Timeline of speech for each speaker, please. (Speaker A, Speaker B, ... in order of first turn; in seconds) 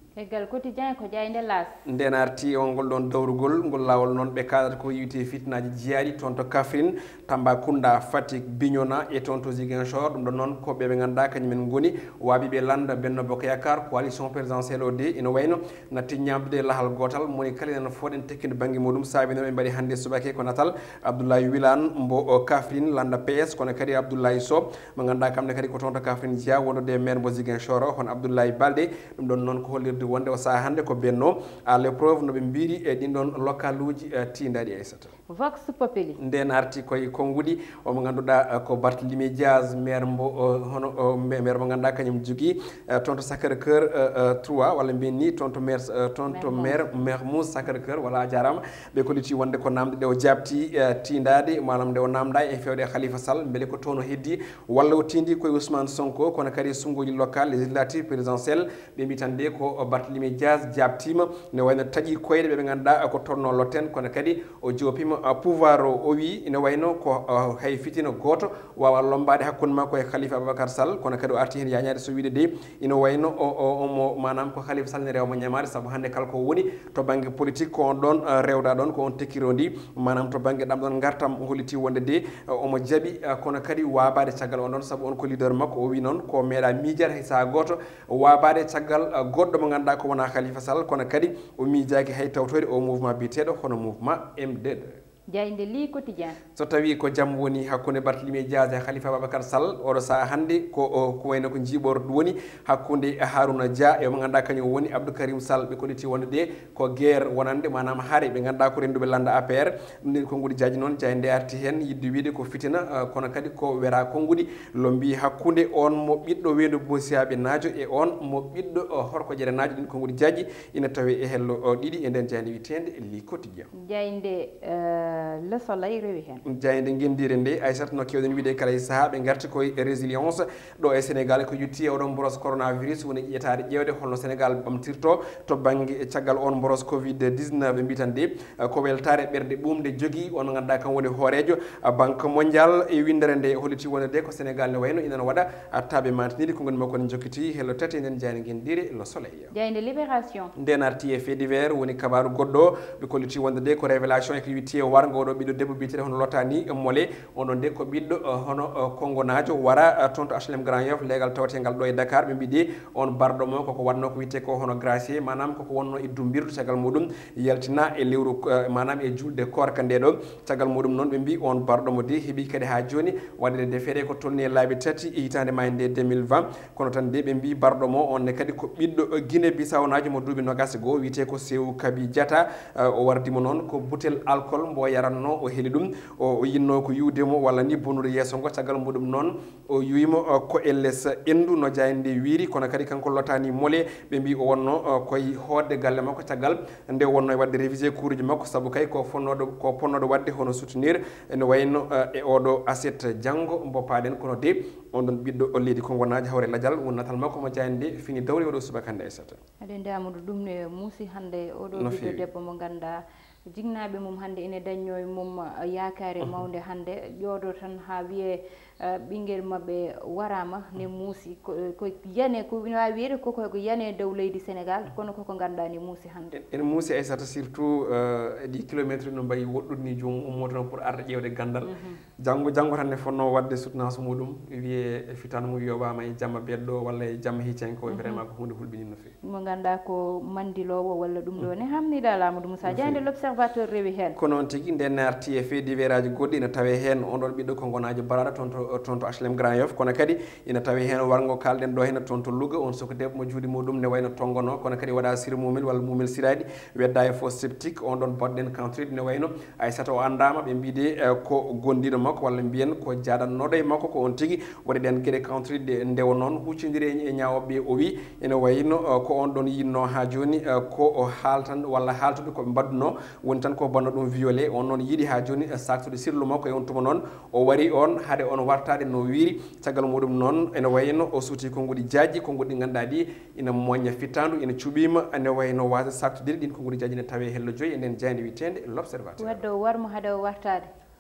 Speaker A: 0.2-1.8, 35.3-36.2, 46.3-46.9, 95.3-96.4, 123.7-126.4, 149.5-150.5, 209.6-226.4, 231.6-232.0, 237.9-238.2, 239.2-244.2, 289.2-290.7
Speaker B: 1.9-35.1, 36.2-95.0, 96.5-123.7, 126.4-149.5, 150.6-209.4, 211.8-212.2, 226.3-239.2, 242.6-243.0, 244.2-289.4